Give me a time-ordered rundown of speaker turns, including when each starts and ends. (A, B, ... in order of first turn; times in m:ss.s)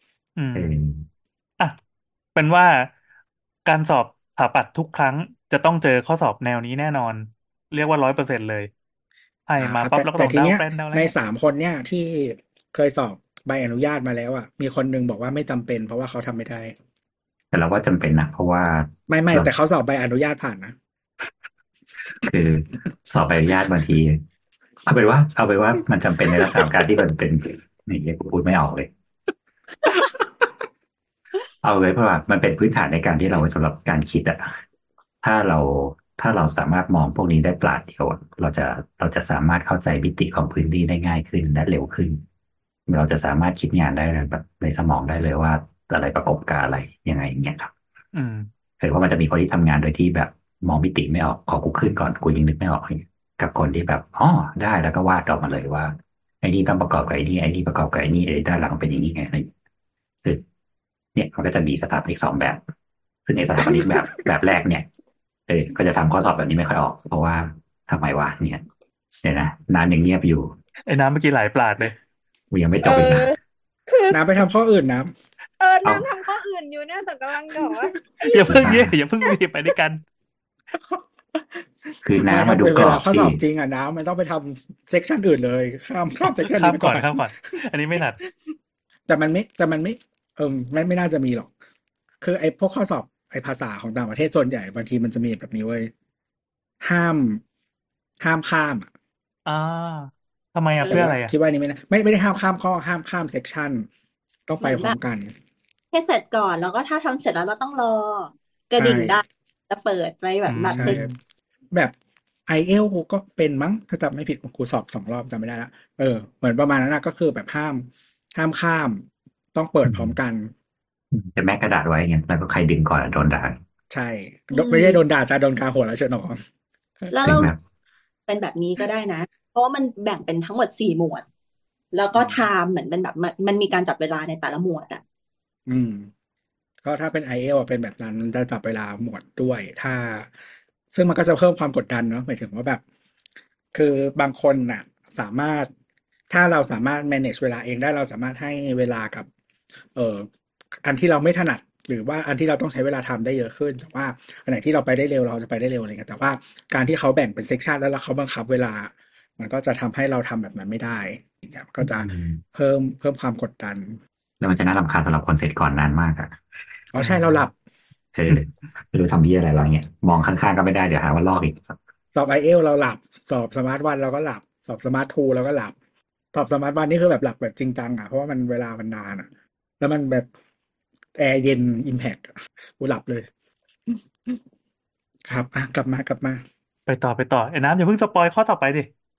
0:00.4-0:00.7 A
0:00.5-0:01.1 B
0:02.4-0:02.9 A
0:03.6-0:08.7 A
0:09.5-0:11.1 A
0:09.6-0:16.7 C
0:17.5-0:19.5 B
0:19.1-0:20.8 C
0:22.3-0:24.2 B
0:24.8-0:28.9 B
0:31.6-0:34.5 B
0:35.2-0:42.2 B
0:42.9-0:47.7 B
0:48.1-0:48.5 A
0:48.8-0:59.5 B
1:01.1-1:02.6 B
1:03.2-1:04.9 B
1:05.5-1:08.6 B
1:09.2-1:10.5 B
1:10.9-1:11.9 A
1:12.5-1:13.3 B
1:12.8-1:13.4 D
1:13.9-1:14.2 D
1:14.1-1:15.1 C
1:15.6-1:18.5 D
1:15.8-1:16.1 B
1:18.3-1:20.0 A
1:18.5-1:18.9 B
1:20.7-1:21.6 C
1:22.0-1:23.4 B
1:22.1-1:27.2 C
1:26.4-1:28.2 A
1:29.1-1:31.5 C
1:32.2-1:35.9 C
1:36.8-1:37.4 C
1:38.2-1:38.9 C
1:39.4-1:41.3 A
1:40.8-1:41.1 E
1:40.9-1:43.9 C
1:44.5-1:45.3 C
1:44.6-1:45.0 E
1:45.9-1:51.0 E
1:48.8-1:49.2 C
1:50.4-1:51.1 A
1:50.7-1:51.1 C
1:52.5-2:00.5 C
1:59.8-2:00.2 B
2:01.1-2:03.6 B
2:03.9-2:06.4 C
2:04.5-2:05.0 E
2:07.1-2:07.5 E
2:07.2-2:07.6 B
2:08.3-2:11.2 E
2:11.9-2:15.0 E
2:12.1-2:12.4 C
2:15.7-2:16.1 C
2:16.8-2:20.3 C
2:20.9-2:22.8 C
2:23.7-2:25.7 C
2:26.3-2:29.3 C
2:29.9-2:30.3 C
2:30.8-2:44.0 C
2:41.8-2:42.4 B
2:44.4-2:46.3 B
2:46.9-2:47.5 C
2:48.1-2:51.8 B
2:52.1-2:55.7 C
2:56.3-2:59.3 C
2:59.8-3:00.3 C
3:01.2-3:03.3 C
3:03.9-3:04.4 C
3:05.3-3:06.4 C
3:06.9-3:08.9 A